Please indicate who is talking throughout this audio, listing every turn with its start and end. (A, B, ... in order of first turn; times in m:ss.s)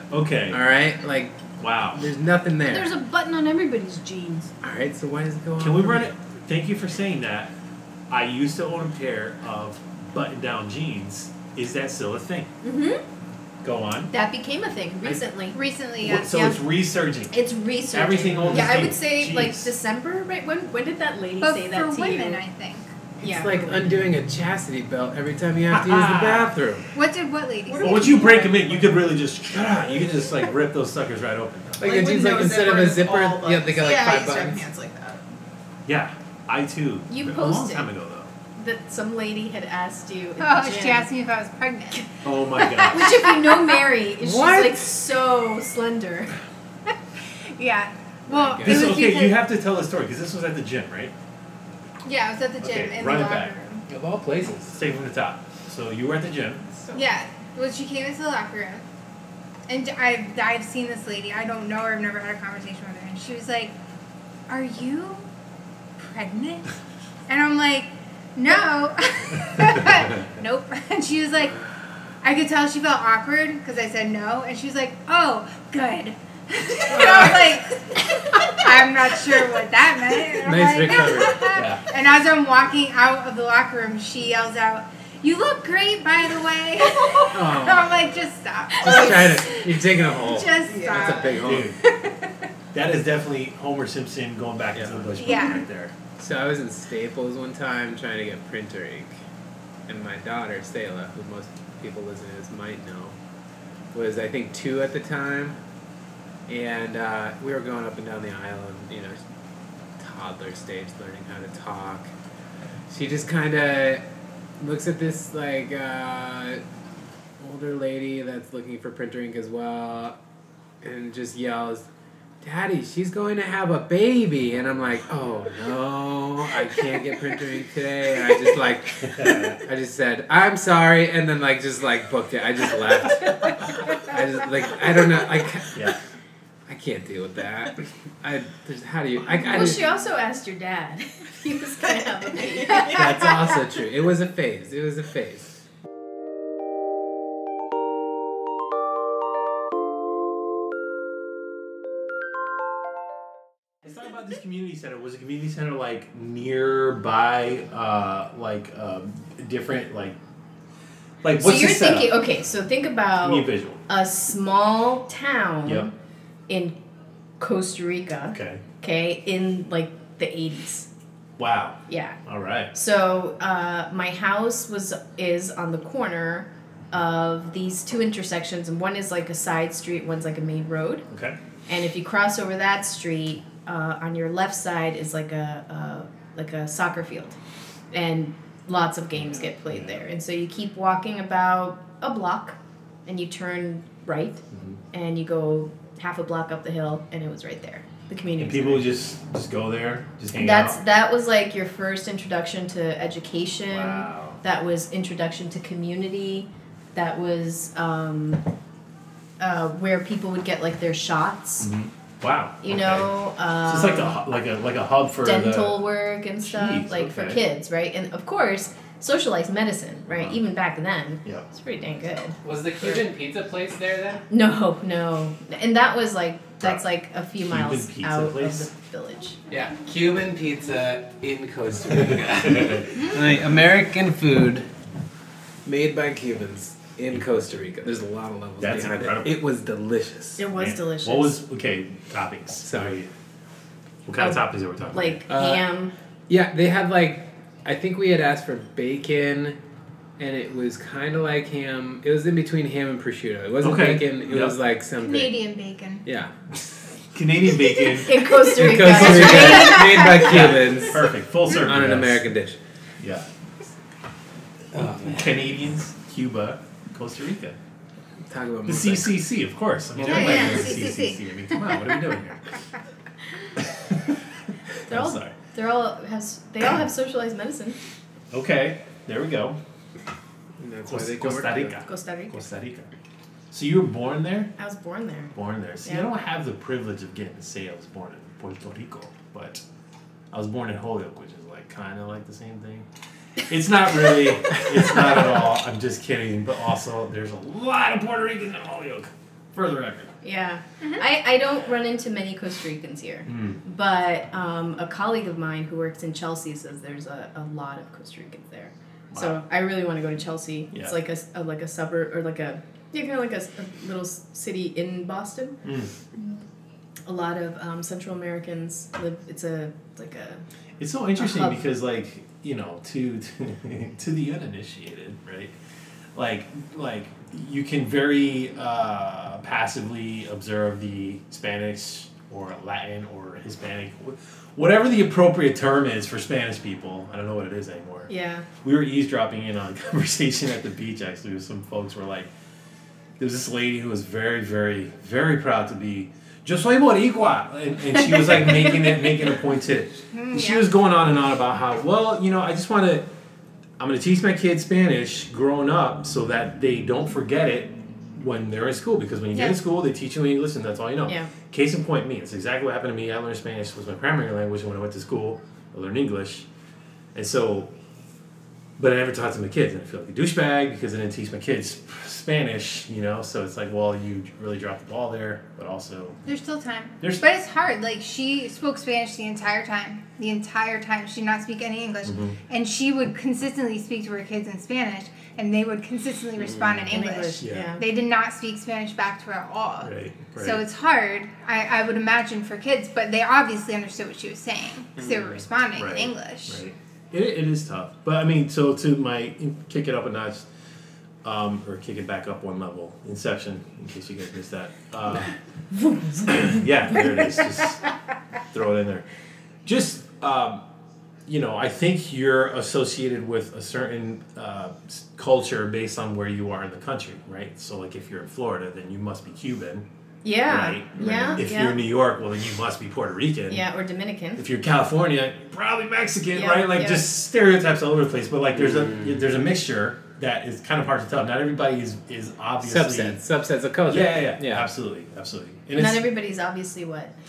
0:00.1-0:00.6 A
0:00.5-0:01.4 B
0:01.6-0:02.0 A
0:01.9-0:03.0 B
0:02.7-0:04.5 C
0:04.6-0:06.1 B
0:05.6-0:07.5 A
0:08.1-0:12.5 A
0:12.6-0:13.0 C
0:13.6-0:14.1 A
0:14.1-0:15.6 C
0:15.5-0:16.4 D
0:16.0-0:17.3 A
0:16.1-0:16.6 C
0:17.3-0:22.4 C
0:17.9-0:19.8 A
0:18.4-0:18.7 B
0:21.4-0:22.9 D
0:23.2-0:24.0 C
0:23.2-0:26.9 B
0:25.7-0:26.6 A
0:26.9-0:28.3 D
0:27.7-0:29.1 E
0:27.8-0:31.9 A
0:31.8-0:34.6 B
0:31.8-0:35.2 E
0:35.9-0:38.3 A
0:37.1-0:37.9 C
0:38.6-0:41.1 C
0:40.4-0:42.1 D
0:42.2-0:43.1 A
0:42.6-0:43.8 D
0:42.8-0:46.4 C
0:44.2-0:44.9 B
0:47.6-0:49.4 D
0:48.3-0:49.0 B
0:48.6-0:51.1 A
0:52.0-0:53.8 D
0:52.6-0:53.5 A
0:53.9-0:54.8 B
0:54.7-0:56.7 A
0:56.9-0:58.8 D
0:59.7-1:03.8 D
1:04.5-1:05.3 D
1:06.0-1:06.7 D
1:07.3-1:11.6 D
1:12.2-1:32.2 D
1:16.9-1:17.6 B
1:20.4-1:21.4 B
1:21.5-1:21.8 A
1:27.3-1:27.9 B
1:28.8-1:31.7 B
1:30.6-1:31.4 E
1:31.4-1:31.8 A
1:32.7-1:35.9 A
1:34.7-1:35.1 B
1:35.2-1:35.6 D
1:36.2-1:39.2 B
1:39.9-1:43.2 B
1:43.9-1:45.6 B
1:46.5-1:49.2 B
1:50.0-1:52.1 B
1:52.9-1:54.0 B
1:54.6-1:56.6 B
1:57.4-2:00.2 B
2:00.8-2:01.9 B
2:02.4-2:15.8 B
2:09.0-2:09.6 A
2:16.7-2:19.8 B
2:19.4-2:23.0 C
2:22.6-2:23.1 E
2:22.8-2:25.5 B
2:33.8-2:40.2 A
2:41.2-2:42.2 A
2:41.4-2:45.9 C
2:43.2-2:43.8 A
2:46.5-2:46.8 C
2:47.4-2:50.9 C
2:48.3-2:48.6 A
2:51.4-2:52.7 A
2:51.9-2:52.2 C
2:52.7-3:01.1 C
3:01.1-3:01.4 A
3:01.7-3:07.4 C
3:07.9-3:18.9 C
3:09.2-3:10.0 A
3:14.5-3:14.8 A
3:18.4-3:20.8 A
3:20.4-3:28.4 C
3:23.7-3:24.4 A
3:29.4-3:31.7 C
3:31.6-3:35.8 A
3:32.6-3:34.2 C
3:35.2-3:42.4 C
3:36.4-3:37.4 A
3:40.1-3:40.4 A
3:42.4-3:44.2 B
3:44.3-3:49.4 C
3:47.4-3:48.7 A
3:49.5-3:54.7 B
3:52.6-3:52.8 A
3:55.6-4:00.4 B
3:57.1-3:57.5 A
3:58.6-3:59.4 A
4:00.4-4:01.4 C
4:00.5-4:03.1 A
4:02.6-4:03.0 B
4:04.1-4:05.2 A
4:04.2-4:05.9 C
4:05.3-4:05.6 B
4:06.3-4:09.6 B
4:10.2-4:15.4 B
4:13.6-4:14.6 A
4:15.0-4:16.0 D
4:16.0-4:16.3 B
4:17.1-4:22.2 A
4:17.9-4:20.1 C
4:18.5-4:22.6 B
4:23.0-4:23.3 A
4:24.7-4:25.5 B
4:24.8-4:27.6 A
4:28.3-4:29.2 B
4:28.6-4:32.4 A
4:30.0-4:30.4 B
4:30.0-4:31.2 D
4:34.9-4:35.3 A
4:34.9-4:37.8 C
4:38.3-4:39.6 A
4:40.6-4:41.8 B
4:40.8-4:42.9 A
4:41.8-4:42.4 C
4:43.5-4:44.5 A
4:44.6-4:46.1 C
4:45.3-4:49.6 A
4:50.3-4:52.9 A
4:53.5-5:00.1 A
5:00.2-5:15.6 C
5:03.3-5:03.6 A
5:09.1-5:09.4 A
5:15.6-5:15.9 A
5:17.1-5:20.4 C
5:20.8-5:25.6 A
5:21.2-5:21.6 C
5:26.2-5:38.1 A
5:38.1-5:38.5 C
5:38.6-5:42.3 A
5:43.2-5:53.1 A
5:50.2-5:50.6 D
5:53.8-6:06.5 A
6:01.0-6:01.3 C
6:07.1-6:07.7 A
6:08.8-6:16.2 A
6:16.2-6:36.6 D
6:22.0-6:22.3 A
6:26.4-6:26.9 B
6:26.9-6:27.9 C
6:27.4-6:27.7 A
6:29.8-6:30.6 A
6:35.0-6:35.4 B
6:35.8-6:40.5 A
6:41.2-6:45.3 A
6:46.2-6:47.9 A
6:48.5-6:49.0 A
6:49.6-6:50.6 A
6:51.3-6:59.9 A
7:00.2-7:01.8 C
7:00.5-7:03.6 A
7:03.5-7:04.4 C
7:04.4-7:13.2 A
7:06.4-7:07.1 C
7:08.6-7:09.3 B
7:12.6-7:14.7 B
7:13.9-7:16.1 A
7:15.8-7:17.1 C